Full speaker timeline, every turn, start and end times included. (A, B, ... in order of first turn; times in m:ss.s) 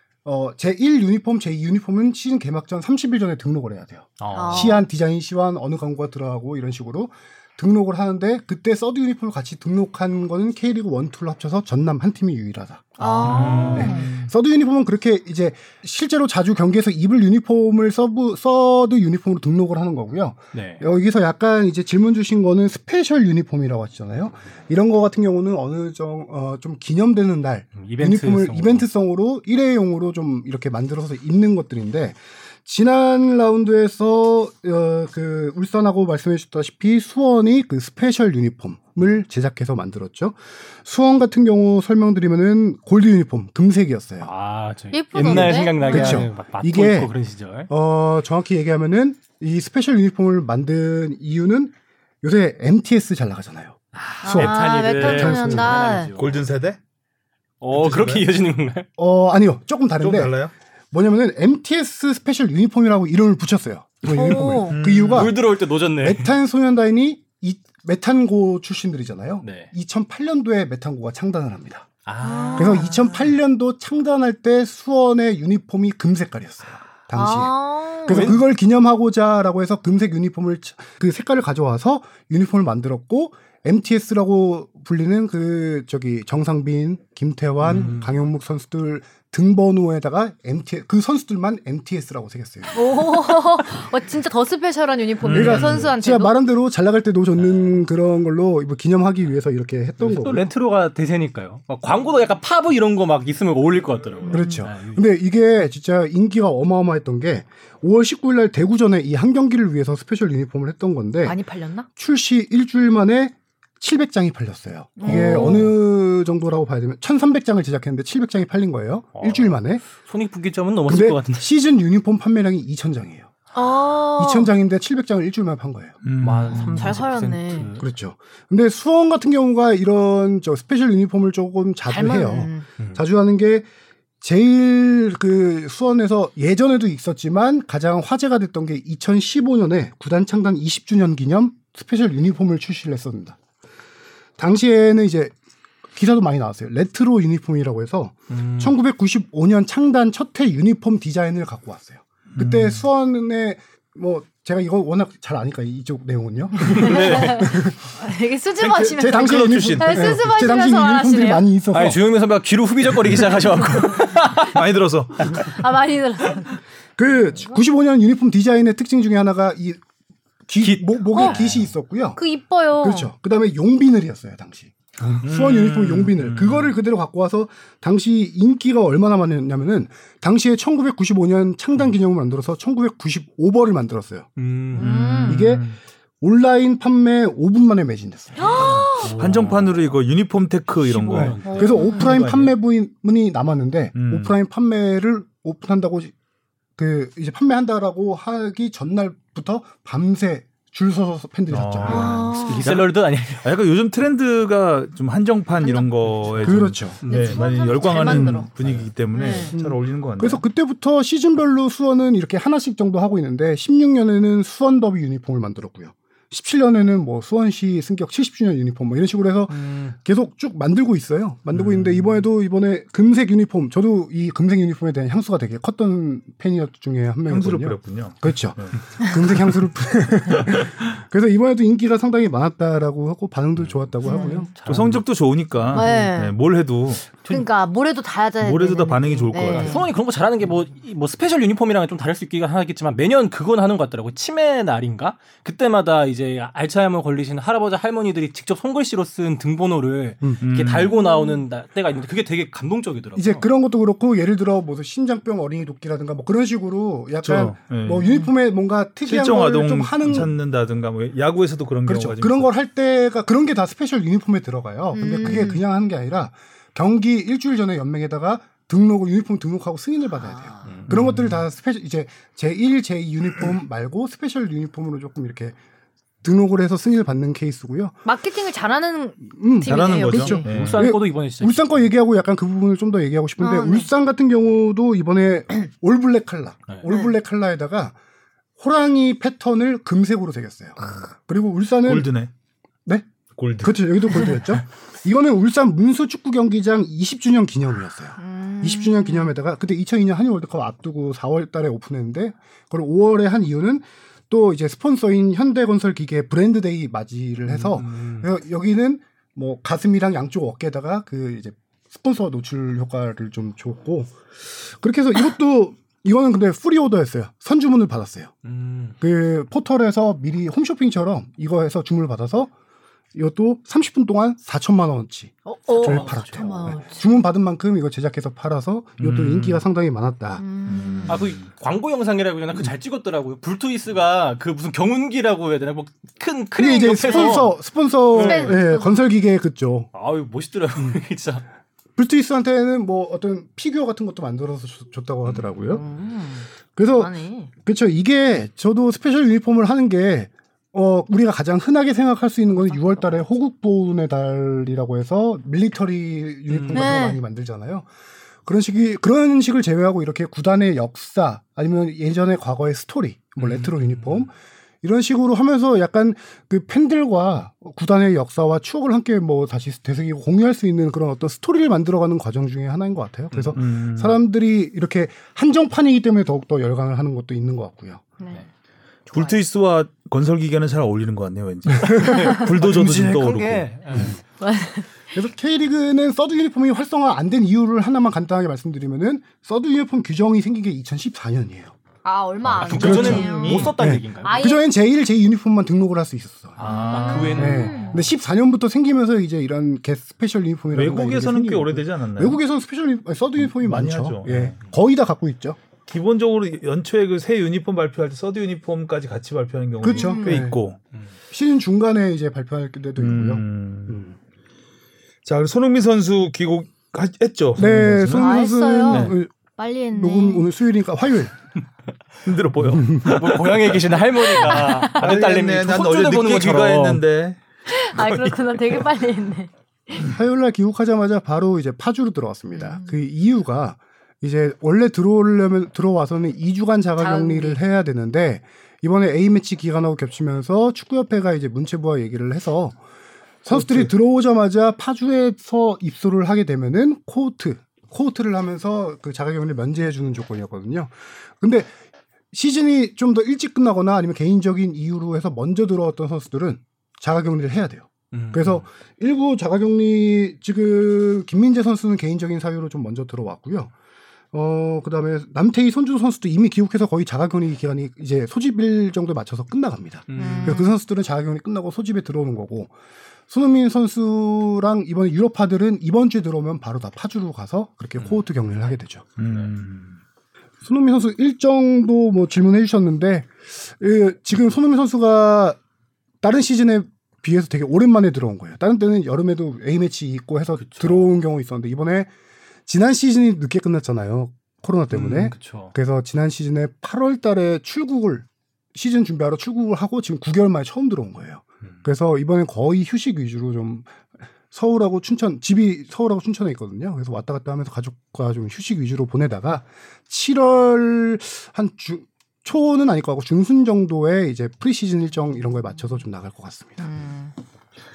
0:00.2-0:44.3 A
0:04.2-0:04.8 B
0:04.3-0:04.8 C
0:13.0-0:14.1 C
0:13.0-0:14.3 B
0:13.2-0:14.1 D
0:20.5-0:20.8 B
0:27.8-0:28.9 B
0:44.2-0:47.7 B
0:44.9-0:46.2 C
0:45.2-0:47.1 A
0:47.7-0:55.7 A
0:53.9-0:56.5 B
0:54.2-0:56.1 C
0:56.2-0:56.8 D
0:57.6-0:58.9 B
0:57.7-0:58.3 D
0:59.0-1:00.4 A
1:00.0-1:00.5 D
1:00.9-1:11.9 A
1:04.0-1:04.8 C
1:04.2-1:06.3 B
1:04.7-1:05.3 D
1:09.4-1:09.7 B
1:12.1-1:13.2 B
1:12.2-1:13.0 C
1:12.6-1:32.8 A
1:17.2-1:18.4 C
1:18.1-1:18.4 B
1:27.6-1:28.1 B
1:32.7-1:36.3 C
1:35.2-1:35.9 D
1:35.3-1:40.5 A
1:37.4-1:37.9 B
1:40.0-1:45.1 B
1:44.3-1:44.6 C
1:44.3-1:51.4 A
1:51.2-1:51.9 C
1:52.0-1:59.8 A
1:55.0-1:55.7 C
1:55.1-1:55.7 B
1:59.2-2:01.5 B
2:00.9-2:03.3 A
2:03.5-2:04.5 C
2:04.2-2:06.0 A
2:06.0-2:07.0 D
2:06.2-2:07.9 B
2:06.5-2:07.7 C
2:07.8-2:13.7 A
2:11.9-2:12.7 C
2:14.2-2:23.4 A
2:24.4-2:25.3 A
2:26.0-2:37.9 A
2:28.3-2:28.8 B
2:32.3-2:32.9 D
2:36.7-2:37.5 B
2:36.8-2:41.5 C
2:38.6-2:42.0 A
2:39.0-2:40.4 D
2:41.7-2:44.6 B
2:44.3-2:45.6 D
2:45.3-2:46.6 C
2:47.0-2:49.8 A
2:50.5-2:52.2 A
2:50.6-2:51.7 B
2:52.2-2:53.1 C
2:52.8-3:04.3 A
2:55.2-2:56.7 B
3:04.4-3:05.7 B
3:04.8-3:05.4 C
3:05.2-3:05.7 A
3:06.2-3:08.5 A
3:08.4-3:09.1 C
3:08.5-3:09.9 B
3:09.1-3:12.5 D
3:10.8-3:11.9 B
3:11.1-3:16.1 A
3:11.4-3:12.2 C
3:14.0-3:14.3 D
3:16.8-3:22.3 A
3:21.5-3:30.4 D
3:21.9-3:22.7 C
3:22.4-3:23.6 B
3:25.6-3:25.9 C
3:26.3-3:26.6 B
3:26.4-3:27.0 A
3:27.0-3:28.5 C
3:28.6-3:28.9 B
3:29.1-3:29.5 C
3:29.4-3:54.5 A
3:39.5-3:40.0 B
3:41.5-3:42.1 D
3:47.3-3:49.6 D
3:50.4-3:50.6 D
3:54.0-3:54.5 C
3:54.2-3:55.0 B
3:54.7-3:57.2 D
3:55.6-3:56.0 B
3:55.7-3:56.4 C
3:57.3-3:59.9 C
3:58.4-3:59.8 D
3:59.3-4:13.5 B
4:10.4-4:11.0 D
4:10.8-4:11.4 C
4:13.2-4:20.3 A
4:17.2-4:18.1 D
4:19.1-4:22.5 D
4:21.8-4:35.6 A
4:24.9-4:25.6 C
4:30.3-4:30.7 C
4:30.6-4:31.3 B
4:36.2-4:38.0 A
4:38.0-4:40.5 C
4:39.3-4:48.0 A
4:39.6-4:40.9 D
4:40.3-4:41.8 B
4:43.4-4:43.9 C
4:46.9-4:47.1 C
4:48.6-4:52.1 A
4:51.8-4:52.3 D
4:53.4-4:54.3 D
4:53.6-5:18.3 A
4:58.2-4:59.4 C
5:07.5-5:08.3 B
5:18.4-5:19.0 B
5:19.0-5:22.5 A
5:23.1-5:30.4 A
5:25.5-5:27.0 C
5:25.8-5:26.7 B
5:29.0-5:29.6 D
5:30.4-5:31.2 C
5:30.7-5:31.5 D
5:31.1-5:37.6 B
5:36.6-5:39.9 A
5:37.1-5:37.4 C
5:38.1-5:38.6 B
5:38.2-5:39.0 C
5:39.9-5:41.4 B
5:42.0-5:45.8 A
5:45.7-5:47.5 C
5:46.8-5:47.1 A
5:47.6-5:57.9 A
5:56.5-5:57.0 B
5:56.7-5:57.2 C
5:58.4-6:18.1 A
6:03.4-6:04.3 B
6:13.3-6:13.6 B
6:13.6-6:14.2 D
6:19.1-6:19.4 C
6:19.1-6:24.2 D
6:21.8-6:22.1 A
6:21.9-6:24.2 B
6:24.4-6:25.0 C
6:25.1-6:31.8 A
6:32.0-6:34.6 C
6:32.4-6:33.7 D
6:32.6-6:34.4 B
6:32.7-6:36.6 A
6:36.6-6:38.1 B
6:36.6-6:38.0 C
6:37.3-6:45.6 A
6:40.7-6:42.4 D
6:43.4-6:44.6 D
6:45.9-6:50.8 D
6:49.8-6:50.6 A
6:49.9-6:50.4 C
6:51.3-6:54.2 A
6:53.0-6:54.0 D
6:55.2-6:59.2 D
6:57.6-6:59.3 A
6:58.1-7:00.5 C
6:59.9-7:01.3 A
7:02.2-7:07.4 D
7:02.6-7:03.2 A
7:03.0-7:07.0 B
7:04.3-7:04.9 C
7:07.7-7:10.0 C
7:07.9-7:08.8 D
7:10.0-7:22.8 A
7:12.5-7:12.9 C
7:17.0-7:17.6 C
7:23.4-7:31.7 A
7:32.3-7:43.7 A
7:38.1-7:38.6 B
7:44.3-7:52.7 A
7:50.1-7:50.6 B
7:50.2-7:50.8 C
7:53.3-7:59.0 A
7:59.2-8:00.0 D
7:59.2-7:59.5 B
8:00.6-8:05.6 A
8:06.2-8:12.1 A
8:10.6-8:11.1 B
8:12.7-8:24.0 A
8:14.9-8:15.7 B
8:24.5-8:36.8 A
8:36.8-8:37.3 C